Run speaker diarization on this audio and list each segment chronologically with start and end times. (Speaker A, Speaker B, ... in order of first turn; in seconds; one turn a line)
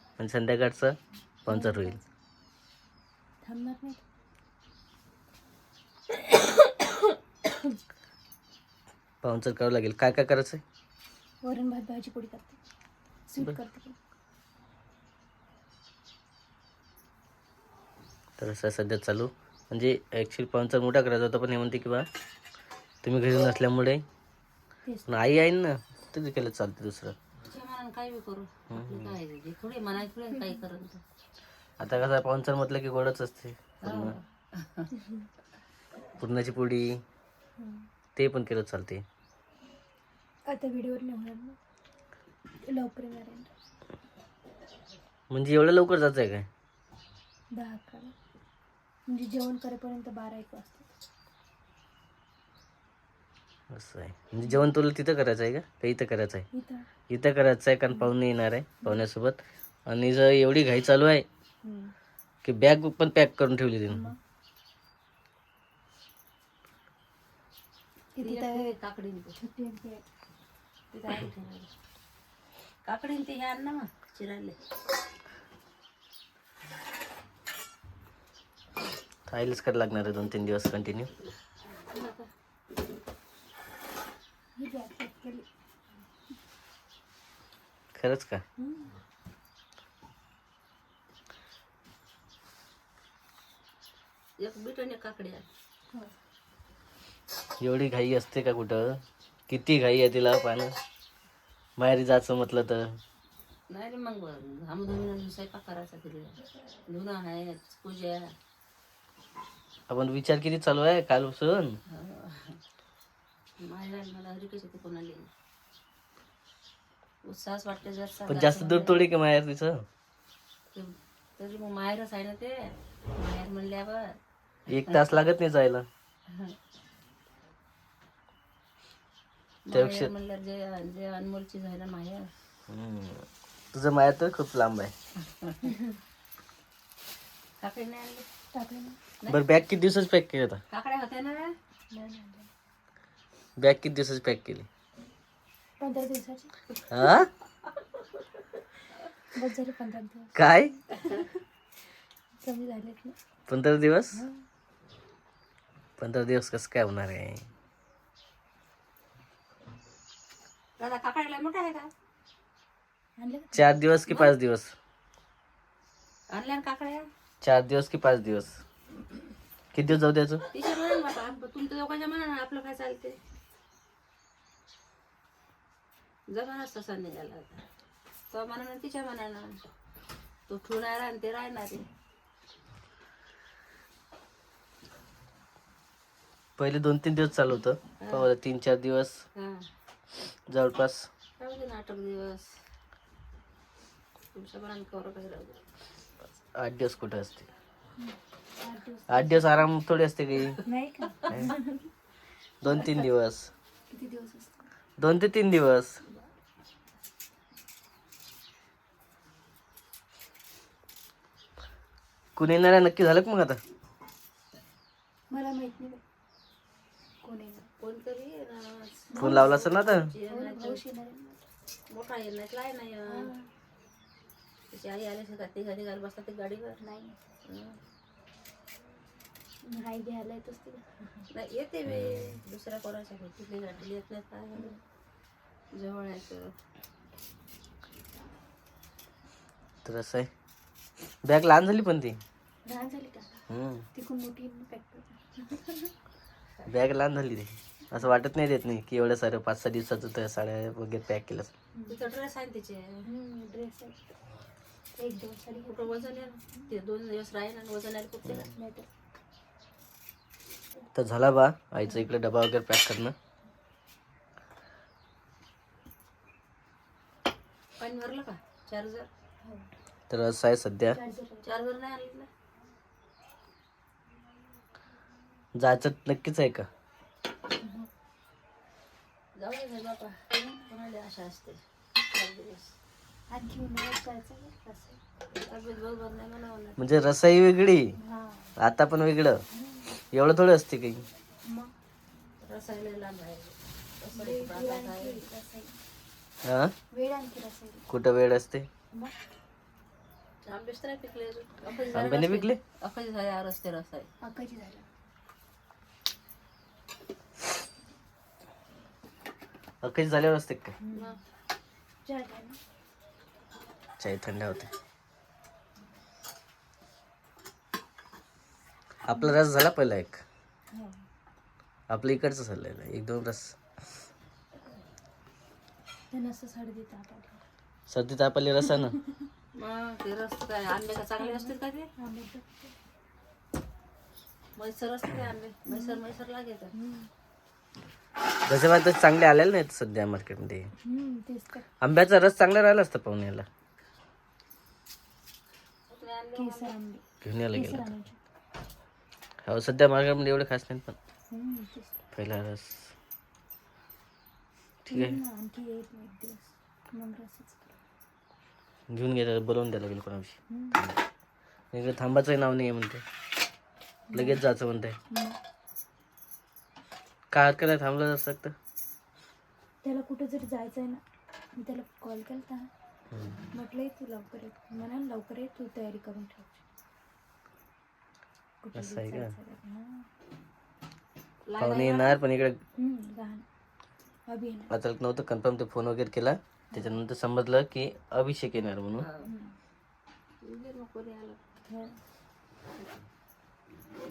Speaker A: 0.2-2.0
Speaker B: 1.5-2.1
Speaker B: 3.4-4.0
Speaker B: 6.2-7.8
Speaker A: 9.2-10.6
Speaker B: 11.4-12.6
Speaker B: 13.3-13.9
Speaker A: 18.4-22.1
Speaker A: 23.0-24.0
Speaker B: 24.8-25.2
Speaker A: 25.1-27.1
Speaker C: 27.5-31.0
Speaker A: 28.7-29.1
Speaker A: 31.8-34.1
Speaker C: 33.8-34.9
Speaker B: 34.9-35.3
Speaker A: 36.2-37.0
Speaker B: 37.6-37.9
Speaker A: 38.1-39.0
Speaker B: 40.5-41.6
Speaker B: 42.6-43.5
Speaker A: 45.3-46.5
Speaker B: 47.5-48.1
Speaker B: 49.1-50.9
Speaker A: 53.7-56.5
Speaker B: 54.4-54.7
Speaker B: 56.5-56.9
Speaker A: 57.1-61.2
Speaker B: 61.6-61.9
Speaker A: 62.4-64.1
Speaker B: 63.9-64.2
Speaker B: 68.1-68.8
Speaker C: 68.2-69.3
Speaker B: 69.3-70.0
Speaker C: 70.9-71.7
Speaker C: 72.8-74.6
Speaker A: 79.3-81.1
Speaker C: 81.8-82.3
Speaker B: 84.6-85.5
Speaker A: 87.9-88.4
Speaker B: 88.6-88.9
Speaker C: 94.4-95.5
Speaker A: 97.6-100.8
Speaker A: 101.8-103.0
Speaker C: 103.7-108.3
Speaker A: 109.9-111.8
Speaker C: 111.9-112.6
Speaker C: 113.6-115.3
Speaker C: 117.2-119.1
Speaker A: 118.3-119.8
Speaker C: 120.7-124.2
Speaker A: 124.7-125.9
Speaker C: 124.7-125.0
Speaker C: 126.3-126.5
Speaker C: 129.7-132.3
Speaker A: 129.7-130.1
Speaker A: 132.7-134.9
Speaker B: 135.6-136.0
Speaker C: 137.6-138.2
Speaker B: 138.5-139.0
Speaker C: 139.2-139.6
Speaker A: 139.3-140.6
Speaker C: 140.7-141.5
Speaker B: 141.9-142.5
Speaker A: 143.6-144.7
Speaker B: 145.8-146.5
Speaker A: 146.9-147.3
Speaker B: 149.3-150.3
Speaker A: 150.3-150.8
Speaker B: 152.4-153.2
Speaker A: 153.5-154.2
Speaker B: 154.1-154.4
Speaker A: 156.0-157.5
Speaker C: 160.8-161.9
Speaker B: 163.2-163.6
Speaker A: 163.5-164.7
Speaker C: 164.1-164.3
Speaker C: 166.3-167.1
Speaker A: 167.4-168.6
Speaker A: 169.7-170.4
Speaker C: 170.5-173.2
Speaker C: 176.3-177.6
Speaker C: 178.3-179.6
Speaker C: 180.5-181.8
Speaker A: 186.6-189.2
Speaker C: 188.0-188.3
Speaker C: 189.3-189.7
Speaker A: 190.5-191.1
Speaker C: 191.4-192.6
Speaker C: 194.3-195.6
Speaker A: 196.6-197.5
Speaker B: 198.0-199.4
Speaker A: 199.1-200.6
Speaker B: 200.6-201.8
Speaker A: 201.3-201.6
Speaker A: 202.6-203.5
Speaker B: 202.7-203.1
Speaker B: 203.9-204.7
Speaker A: 205.0-206.0
Speaker A: 212.3-213.6
Speaker B: 215.3-216.0
Speaker B: 217.2-217.7
Speaker C: 217.8-220.8
Speaker B: 219.1-219.6
Speaker A: 219.2-220.1
Speaker B: 220.2-221.5
Speaker C: 221.9-223.3
Speaker B: 223.1-223.5
Speaker C: 224.7-226.8
Speaker B: 226.8-227.2
Speaker C: 227.4-227.8
Speaker B: 229.6-231.2
Speaker C: 231.3-234.7
Speaker A: 231.9-232.3
Speaker C: 235.7-236.5
Speaker A: 239.8-240.3
Speaker A: 241.2-242.2
Speaker B: 242.6-245.9
Speaker A: 243.5-243.8
Speaker A: 246.7-251.5
Speaker B: 251.7-252.0
Speaker C: 251.9-253.1
Speaker B: 253.0-254.0
Speaker B: 255.0-256.7
Speaker C: 255.7-258.5
Speaker B: 258.4-258.9
Speaker A: 260.9-263.1
Speaker C: 267.8-269.1
Speaker B: 269.4-269.7
Speaker A: 270.1-271.0
Speaker B: 270.9-271.6
Speaker C: 271.4-272.3
Speaker A: 275.5-276.7
Speaker B: 277.6-277.9
Speaker C: 279.4-282.7
Speaker B: 283.3-285.0
Speaker C: 285.4-286.9
Speaker A: 286.8-288.0
Speaker B: 287.9-288.5
Speaker A: 288.6-289.4
Speaker B: 289.5-290.0
Speaker A: 290.1-291.1
Speaker B: 291.4-291.7
Speaker C: 292.4-295.2
Speaker B: 294.1-295.8
Speaker A: 296.4-296.7
Speaker B: 296.9-297.9
Speaker A: 297.9-298.7
Speaker C: 300.4-304.1
Speaker A: 301.9-302.6
Speaker B: 304.2-304.9
Speaker A: 309.8-310.8
Speaker B: 310.8-311.2
Speaker C: 310.9-311.2
Speaker B: 312.0-312.6
Speaker A: 314.0-314.7
Speaker A: 319.0-320.2
Speaker B: 320.7-321.0
Speaker A: 321.9-323.6
Speaker B: 326.1-327.4
Speaker A: 327.9-328.9
Speaker B: 328.7-329.2
Speaker C: 329.5-331.9
Speaker B: 331.1-332.7
Speaker C: 334.6-336.7
Speaker B: 335.7-336.0
Speaker B: 336.7-337.1
Speaker A: 338.4-340.7
Speaker B: 340.8-341.7
Speaker A: 341.8-343.4
Speaker C: 345.9-346.7
Speaker B: 346.3-348.2
Speaker A: 347.2-347.9
Speaker A: 349.4-351.0
Speaker B: 351.3-352.1
Speaker A: 352.1-352.9
Speaker A: 354.9-355.2
Speaker B: 354.9-357.8
Speaker A: 358.9-361.0
Speaker B: 360.5-360.8
Speaker A: 361.7-363.0
Speaker B: 364.1-364.4
Speaker A: 364.1-365.0
Speaker B: 365.1-365.4
Speaker A: 367.3-368.5
Speaker B: 369.8-371.0
Speaker B: 371.6-372.7
Speaker B: 373.5-376.6
Speaker B: 378.6-380.1
Speaker A: 378.7-379.4
Speaker C: 381.5-382.2
Speaker A: 381.6-382.6
Speaker B: 382.8-383.4
Speaker B: 384.3-384.7
Speaker A: 384.7-389.1
Speaker C: 389.0-389.3
Speaker B: 389.2-389.6
Speaker C: 390.4-391.4
Speaker B: 391.7-392.0